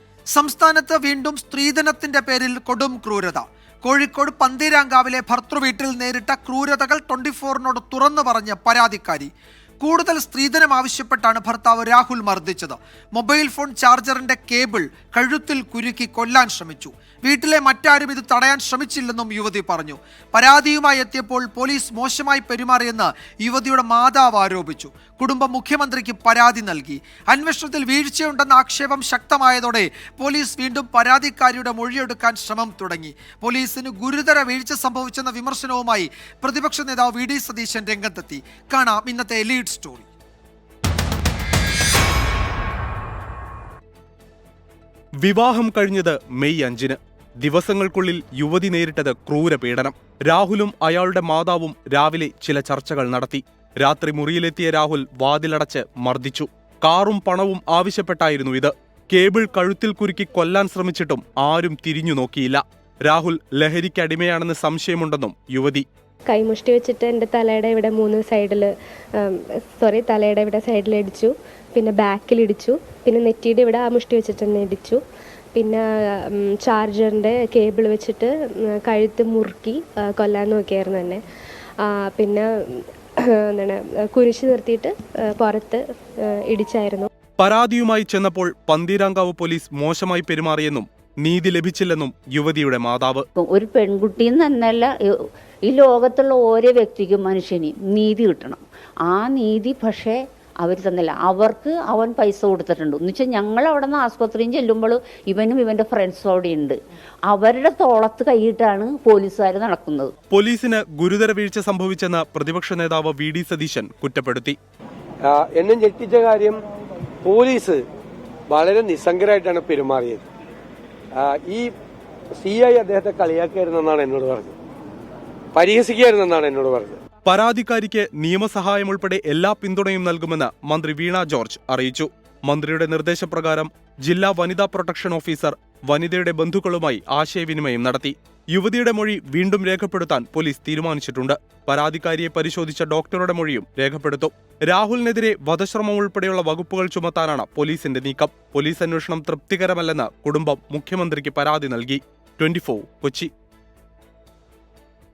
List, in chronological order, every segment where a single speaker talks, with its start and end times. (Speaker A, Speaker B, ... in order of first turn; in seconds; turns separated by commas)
Speaker A: 0.3-40.1, Speaker B: 45.2-65.9, Speaker C: 66.3-75.0, Speaker C: 75.6-75.8, Speaker C: 76.4-81.2, Speaker C: 81.8-82.5, Speaker C: 83.4-87.1, Speaker B: 87.4-93.3, Speaker D: 93.4-106.8, Speaker D: 107.3-110.1, Speaker B: 110.3-114.6, Speaker E: 115.3-116.6, Speaker E: 117.2-117.8, Speaker E: 118.5-120.2, Speaker E: 121.2-121.7, Speaker E: 122.4-124.5, Speaker E: 125.5-127.0, Speaker B: 127.3-153.3